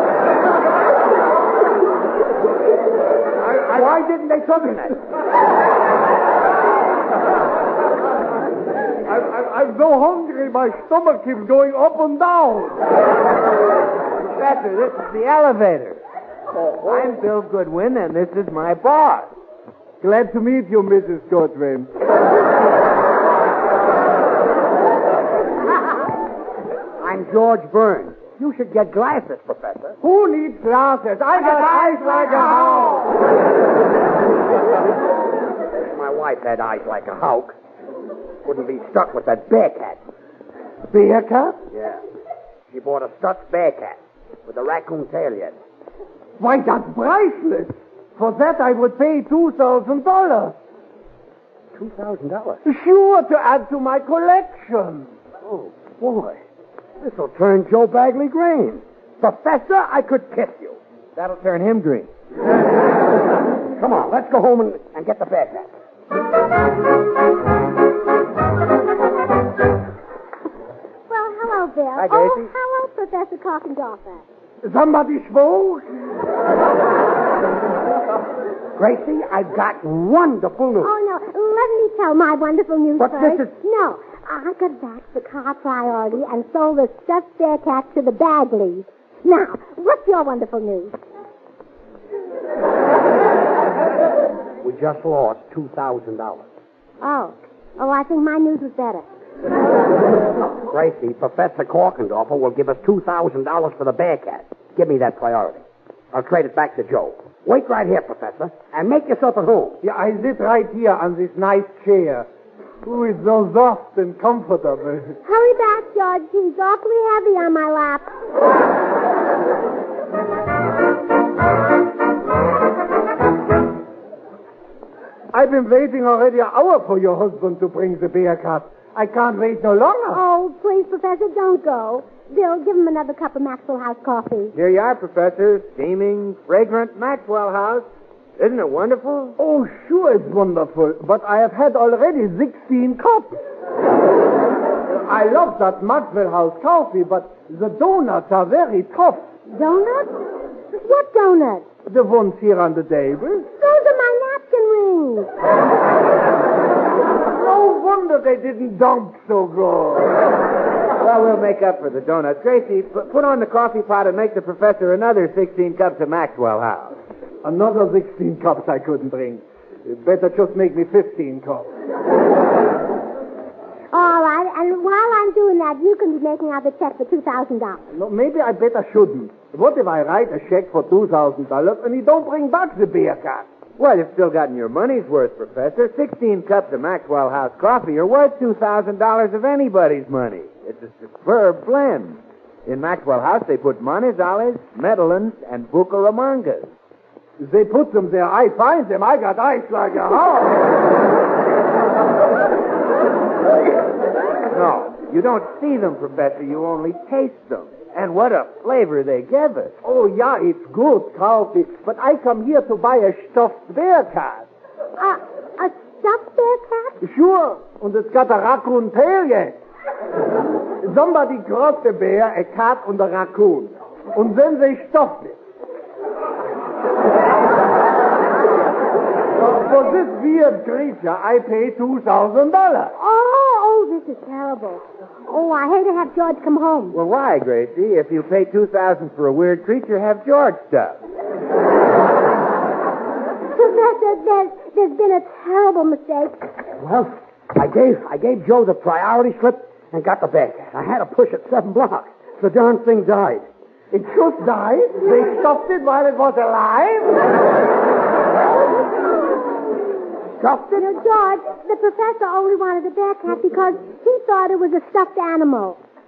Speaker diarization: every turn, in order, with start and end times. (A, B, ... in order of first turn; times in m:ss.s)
0:03.4-0:05.0 A
0:09.1-0:12.8 A
0:14.3-0:16.0 B
0:16.9-0:19.3 B
0:20.0-0:21.9 A
0:27.0-0:30.0 C
0:30.0-0:33.1 A
0:35.7-0:37.6 C
0:38.4-0:40.0 C
0:40.9-0:41.6 A
0:41.7-0:42.0 C
0:42.7-0:45.6 C
0:46.4-0:50.6 A
0:51.7-0:52.6 C
0:52.6-0:55.1 A
0:55.4-0:56.4 C
0:57.0-1:00.8 C
1:01.2-1:02.1 B
1:03.8-1:05.7 C
1:11.1-1:14.2 D
1:12.0-1:12.5 B
1:14.6-1:15.9 A
1:18.8-1:20.9 C
1:20.8-1:30.9 D
1:23.0-1:23.5 C
1:34.6-1:36.4 C
1:37.0-1:39.0 D
1:40.4-1:49.8 C
1:49.8-1:52.3 A
1:52.8-1:55.2 A
1:55.2-1:58.0 D
2:05.3-2:10.2 A
2:10.1-2:14.5 D
2:14.5-2:17.8 B
2:18.4-2:19.4 B
2:19.4-2:23.4 A
2:24.9-2:29.3 A
2:29.5-2:30.2 D
2:30.8-2:31.6 D
2:31.8-2:33.5 A
2:33.6-2:35.3 D
2:37.3-2:40.3 A
2:41.0-2:46.9 B
2:47.4-2:51.7 A
2:53.9-2:57.8 D
2:57.9-3:03.5 A
3:03.8-3:16.7 B
3:17.4-3:20.6 A
3:24.5-3:29.7 B
3:29.8-3:34.4 A
3:35.0-3:37.0 D
3:37.0-3:39.6 A
3:40.8-3:45.4 A
3:49.3-3:52.9 A
3:53.0-3:57.0 D
3:56.9-4:01.0 B
4:03.5-4:06.4 D
4:06.8-4:13.5 C
4:13.9-4:17.3 A
4:20.4-4:20.8 C
4:20.7-4:25.8 D